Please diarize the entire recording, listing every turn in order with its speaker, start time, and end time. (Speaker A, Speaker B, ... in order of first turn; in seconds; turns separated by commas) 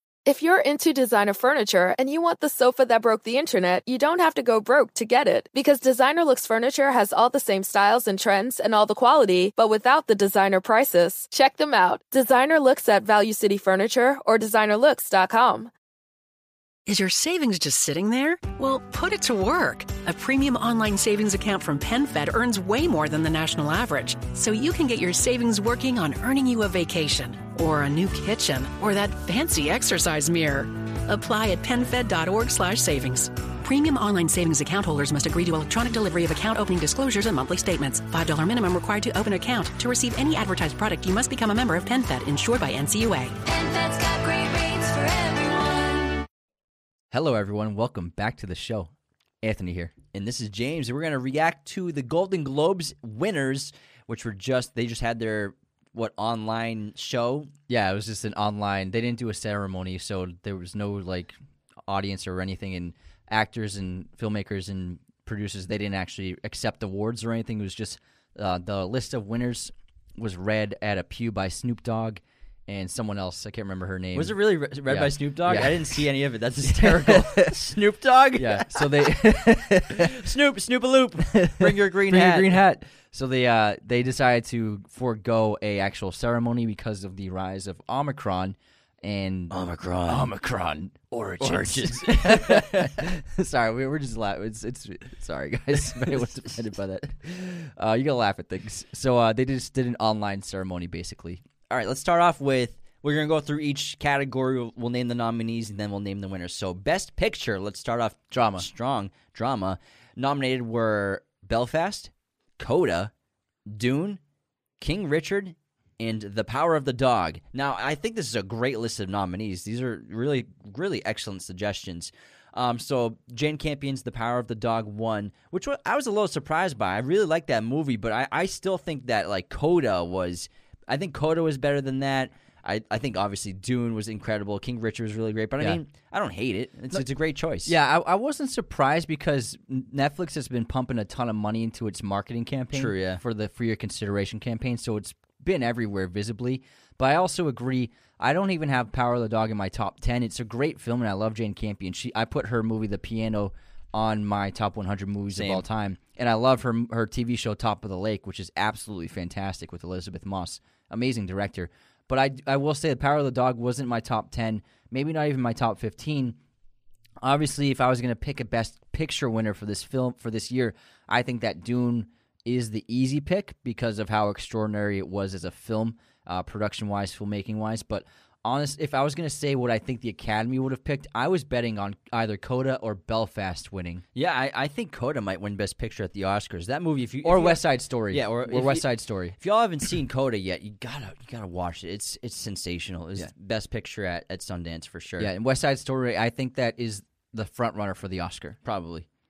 Speaker A: 0.3-15.7, Speaker B: 16.9-43.4, Speaker C: 43.5-46.2, Speaker D: 47.1-49.9, Speaker E: 50.1-57.5, Speaker D: 57.7-61.4, Speaker D: 61.9-76.0, Speaker E: 74.2-79.4, Speaker D: 76.6-77.5, Speaker D: 78.4-80.1, Speaker E: 79.9-82.7, Speaker D: 81.3-89.5, Speaker E: 89.5-90.3, Speaker D: 90.1-101.4, Speaker E: 91.4-93.0, Speaker E: 95.8-96.5, Speaker E: 101.7-113.1, Speaker D: 108.3-108.7, Speaker E: 113.7-114.2, Speaker E: 114.8-137.7, Speaker D: 137.7-166.4, Speaker E: 142.7-143.2, Speaker E: 155.3-155.7, Speaker D: 167.2-184.0, Speaker E: 184.2-195.3, Speaker D: 187.2-189.4, Speaker D: 195.2-198.6, Speaker E: 198.7-199.1